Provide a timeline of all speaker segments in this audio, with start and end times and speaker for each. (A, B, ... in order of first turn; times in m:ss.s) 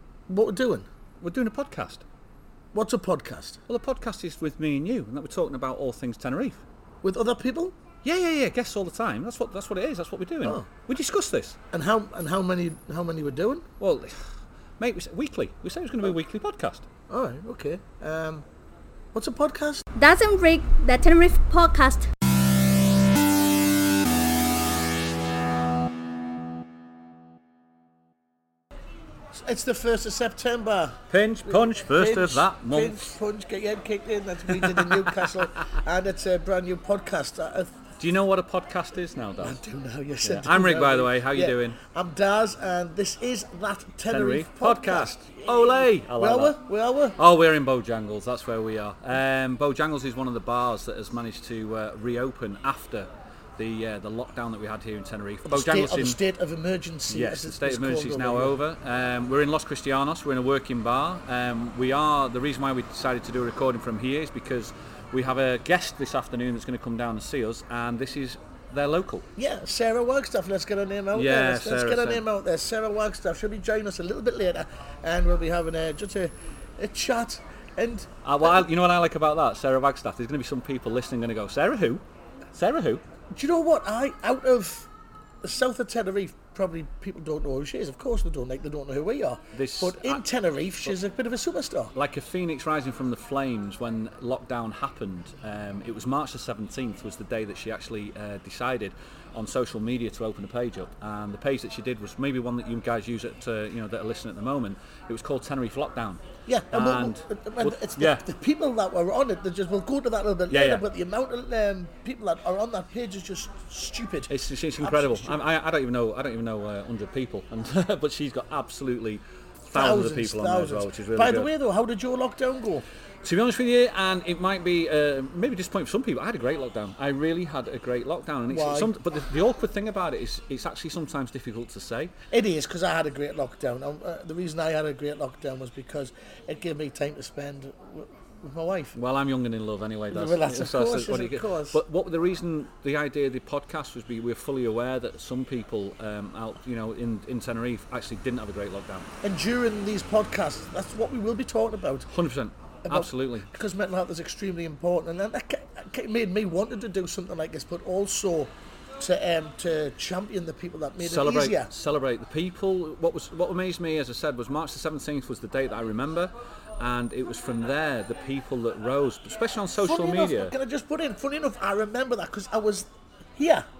0:00.3-0:00.9 A
0:01.2-0:02.0 B
0:02.7-0:03.6 A
0:03.7-0:06.6 B
0:07.0-0:07.8 A
0:08.0-0:11.6 B
0:11.7-0:13.7 A
0:13.8-0:14.3 B
0:14.8-0:16.8 B
0:17.1-0:18.4 A
0:19.1-0:19.8 A
0:19.9-0:22.1 C
0:29.3-0:37.8 A
0:31.1-0:33.1 B
0:34.5-0:35.3 B
0:38.0-0:39.6 B
0:39.4-0:47.2 A
0:40.2-0:41.8 B
0:44.1-0:46.6 B
0:47.2-0:56.2 B
0:55.4-0:58.5 A
0:57.1-1:09.3 B
1:09.4-1:18.6 A
1:11.1-1:12.2 B
1:18.2-1:22.0 B
1:22.5-1:23.0 B
1:23.3-1:24.9 A
1:25.4-1:31.9 A
1:29.5-1:30.2 B
1:31.9-1:46.2 B
1:46.5-1:55.4 A
1:46.7-1:48.3 B
1:50.5-1:50.8 B
1:54.3-2:01.5 B
1:59.7-2:02.8 A
2:03.2-2:12.1 B
2:08.5-2:08.9 A
2:12.3-2:19.0 A
2:18.9-2:29.1 B
2:20.1-2:21.8 A
2:29.2-2:32.1 A
2:32.1-2:33.5 B
2:32.8-2:41.7 A
2:41.0-2:50.5 B
2:49.8-2:53.7 A